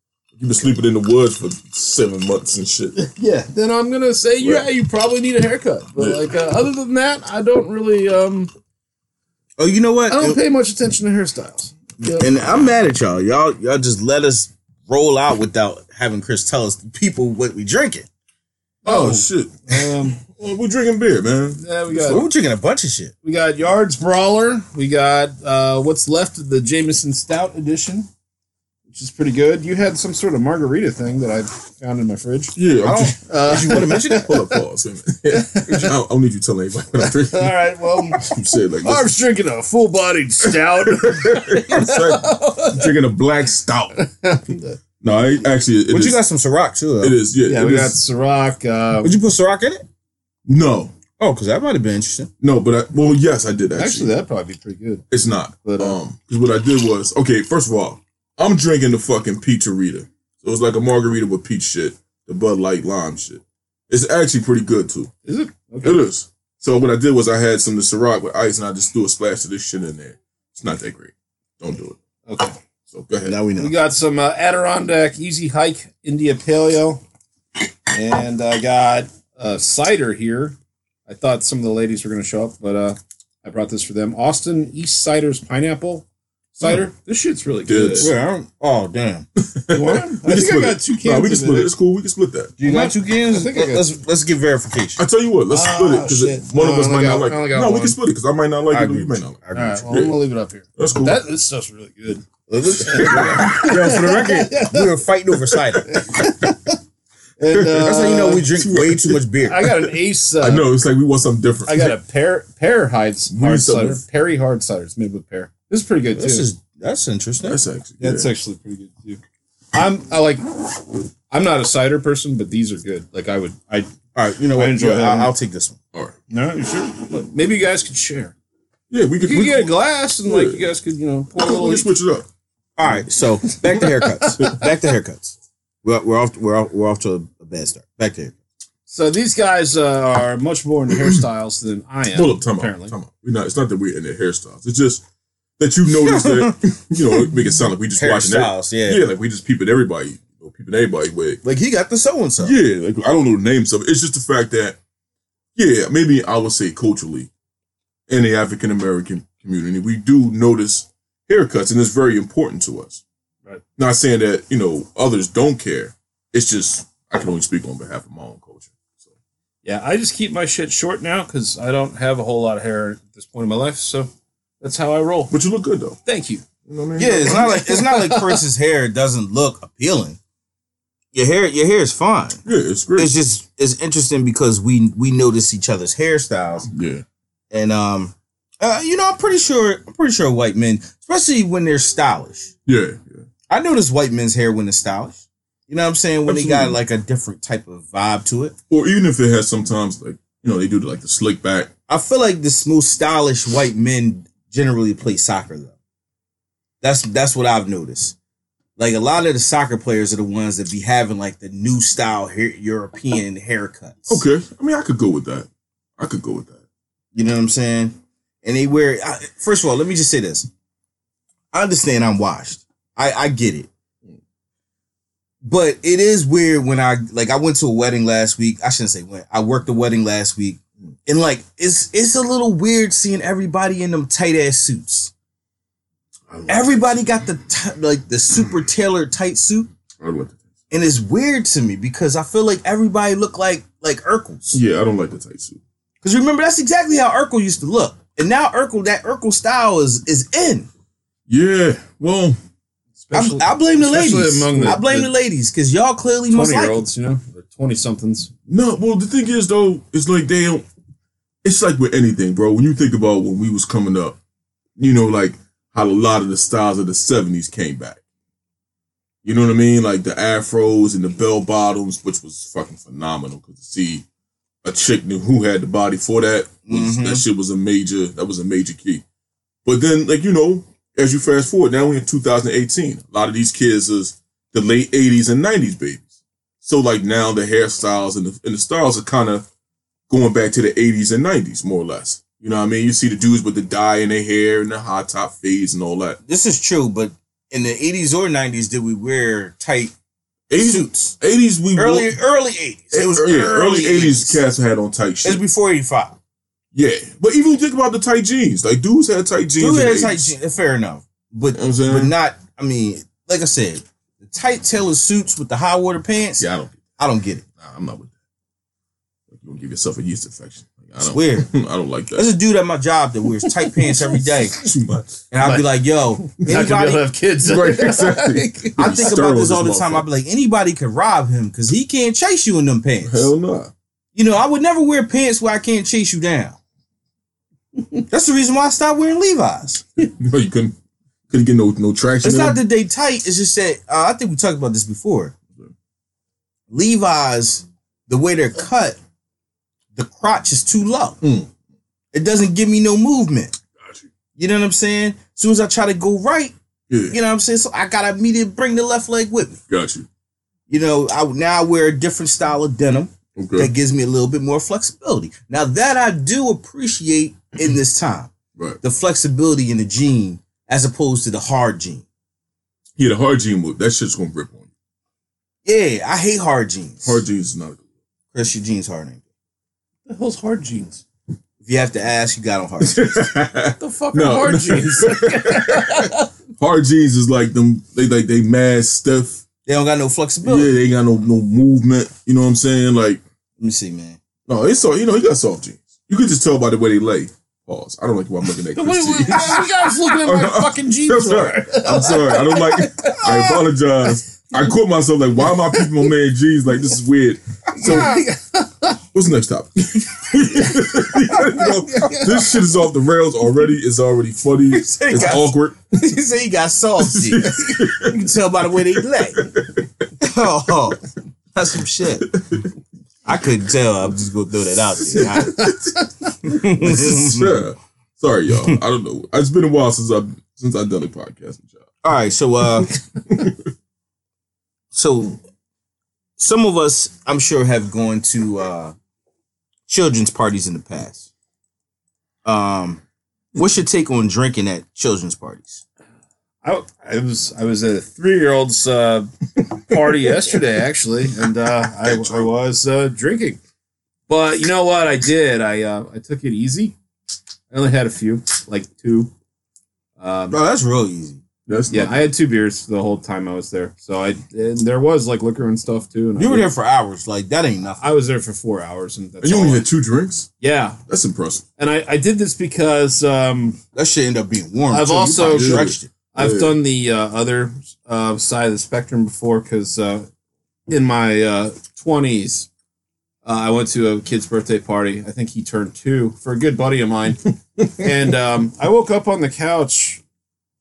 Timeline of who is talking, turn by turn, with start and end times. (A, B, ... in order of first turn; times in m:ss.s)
0:00.4-0:03.0 A
0:03.0-0:08.5 B
0:04.4-0:04.7 A
0:06.0-0:06.2 A
0:09.6-0:10.4 C
0:10.1-0:12.3 B
0:12.1-0:18.1 C
0:18.8-0:20.2 B
0:18.9-0:22.2 A
0:21.6-0:22.2 B
0:22.0-0:23.1 C
0:23.2-0:28.1 B
0:28.9-0:32.6 B
0:32.6-0:39.1 A
0:32.8-0:34.3 C
0:33.2-0:34.6 B
0:35.3-0:36.0 B
0:37.0-0:43.0 B
0:40.4-0:44.0 A
0:44.0-0:44.8 B
0:45.0-0:46.2 A
0:45.9-0:47.2 C
0:47.0-0:48.0 A
0:47.5-0:49.1 B
0:49.0-0:49.9 C
0:50.5-0:50.9 A
0:51.2-0:52.3 C
0:52.4-0:54.1 A
0:53.8-0:55.0 B
0:55.1-1:05.1 A
0:55.6-0:56.0 B
1:05.2-1:06.0 B
1:05.8-1:12.0 A
1:12.3-1:12.6 B
1:12.9-1:13.4 A
1:13.2-1:13.7 C
1:13.6-1:17.0 B
1:17.9-1:20.6 B
1:21.1-1:28.1 B
1:27.7-1:28.1 A
1:28.0-1:29.3 C
1:29.4-1:32.6 A
1:29.7-1:31.7 B
1:32.6-1:35.0 C
1:32.6-1:33.9 B
1:35.0-1:40.2 A
1:35.5-1:38.0 B
1:38.7-1:39.8 C
1:39.5-1:42.3 B
1:40.8-1:41.2 A
1:42.5-1:46.0 C
1:42.8-1:46.7 B
1:42.9-1:44.1 A
1:45.9-1:46.5 A
1:47.4-1:48.5 B
1:47.5-1:52.0 A
1:47.8-1:49.7 C
1:49.5-1:50.7 B
1:51.7-1:56.5 B
1:53.3-1:54.0 A
1:56.1-1:57.6 C
1:57.4-1:58.3 A
1:58.0-1:59.2 B
1:59.7-2:03.9 B
2:04.2-2:05.8 C
2:04.5-2:05.3 B
2:06.3-2:08.3 B
2:08.9-2:10.7 A
2:09.2-2:11.9 B
2:11.4-2:12.3 A
2:12.8-2:18.3 C
2:13.5-2:14.6 B
2:18.9-2:22.9 B
2:21.0-2:21.2 A
2:22.1-2:25.0 A
2:25.6-2:31.4 A
2:25.9-2:27.3 C
2:27.9-2:29.0 C
2:31.4-2:32.6 C
2:32.4-2:34.8 A
2:35.6-2:37.3 A
2:38.1-2:43.0 A
2:43.8-2:49.1 A
2:49.6-2:54.1 B
2:54.6-2:55.3 B
2:55.3-2:56.0 A
2:56.1-2:56.4 B
2:56.6-2:57.6 A
2:57.0-3:00.2 C
2:57.2-2:58.4 B
3:01.1-3:02.4 C
3:02.4-3:03.1 A
3:03.0-3:06.7 C
3:06.7-3:07.0 A
3:07.5-3:12.5 C
3:12.7-3:13.2 A
3:13.5-3:18.6 C
3:16.3-3:16.8 A
3:18.7-3:21.7 A
3:21.9-3:25.8 C
3:26.8-3:28.2 C
3:28.8-3:34.2 C
3:34.1-3:36.6 A
3:37.2-3:40.5 C
3:41.5-3:43.7 C
3:45.4-3:55.1 C
3:56.3-3:57.1 A
3:56.5-3:59.7 C
4:00.0-4:00.5 A
4:00.7-4:04.6 C
4:04.5-4:05.6 A
4:06.0-4:10.7 C
4:11.3-4:12.4 A
4:13.0-4:15.1 B
4:13.1-4:16.8 C
4:16.3-4:18.3 B
4:18.5-4:20.7 A
4:21.4-4:24.2 A
4:24.8-4:28.0 A
4:29.2-4:34.0 A
4:34.6-4:39.0 A
4:36.7-4:37.2 C
4:39.6-4:46.1 A
4:46.6-4:49.5 A
4:50.1-4:56.2 A
4:56.3-4:59.9 C
5:00.5-5:02.2 A
5:00.6-5:01.2 C
5:01.8-5:04.4 C
5:02.9-5:05.4 A
5:05.2-5:06.2 C
5:06.7-5:10.4 A
5:09.6-5:17.4 C
5:11.5-5:12.1 A
5:16.4-5:16.8 A
5:17.6-5:18.1 A
5:19.3-5:22.3 A
5:21.0-5:21.5 C
5:22.1-5:24.6 C
5:23.4-5:24.2 B
5:24.5-5:25.2 A
5:25.3-5:27.0 C
5:25.4-5:29.1 B
5:27.4-5:30.1 A
5:28.8-5:33.3 C
5:33.0-5:33.7 A
5:34.2-5:36.6 C
5:38.1-5:40.1 C
5:40.2-5:40.8 A
5:41.3-5:42.6 A
5:42.2-5:45.4 C
5:46.7-5:49.0 C
5:50.0-5:51.2 C
5:51.2-5:51.5 A
5:52.1-5:53.6 C
5:53.8-5:54.1 A
5:54.4-5:56.5 C
5:56.9-5:57.2 A
5:57.1-5:59.6 C
5:59.7-6:00.1 A
6:00.7-6:12.0 C
6:03.4-6:03.7 A
6:13.0-6:14.7 A
6:15.6-6:17.2 C
6:17.0-6:17.8 A
6:18.3-6:19.2 C
6:20.1-6:21.0 B
6:21.6-6:23.2 C
6:22.8-6:29.4 A
6:23.8-6:26.3 B
6:29.7-6:30.7 C
6:30.4-6:33.2 A
6:33.6-6:34.2 C
6:34.5-6:48.2 A
6:38.8-6:43.7 B
6:45.5-6:46.1 B
6:47.8-6:49.0 B
6:49.1-6:56.0 A
6:50.6-6:52.6 B
6:54.7-6:59.5 C
6:57.0-6:58.3 A
6:59.0-7:00.1 A
7:00.2-7:02.3 C
7:02.3-7:02.7 A
7:03.3-7:05.7 C
7:05.1-7:11.9 A
7:05.6-7:06.0 B
7:06.4-7:07.6 C
7:12.0-7:13.0 C
7:12.8-7:13.6 A
7:14.9-7:15.4 C
7:16.4-7:18.9 C
7:19.9-7:21.3 C
7:22.4-7:23.0 C
7:23.6-7:25.8 C
7:26.6-7:33.6 B
7:32.0-7:32.5 A
7:34.3-7:37.0 B
7:37.7-7:39.3 B
7:40.2-7:40.6 B
7:40.5-7:41.4 C
7:41.7-7:42.3 A
7:41.9-7:46.7 B
7:46.4-7:48.2 C
7:48.0-7:49.8 B
7:49.4-7:50.5 A
7:50.6-7:51.0 B
7:51.1-7:51.6 A
7:51.8-7:53.8 B
7:53.9-7:56.1 C
7:54.9-8:00.3 B
7:55.4-7:56.8 A
8:00.9-8:02.7 B
8:03.4-8:10.2 B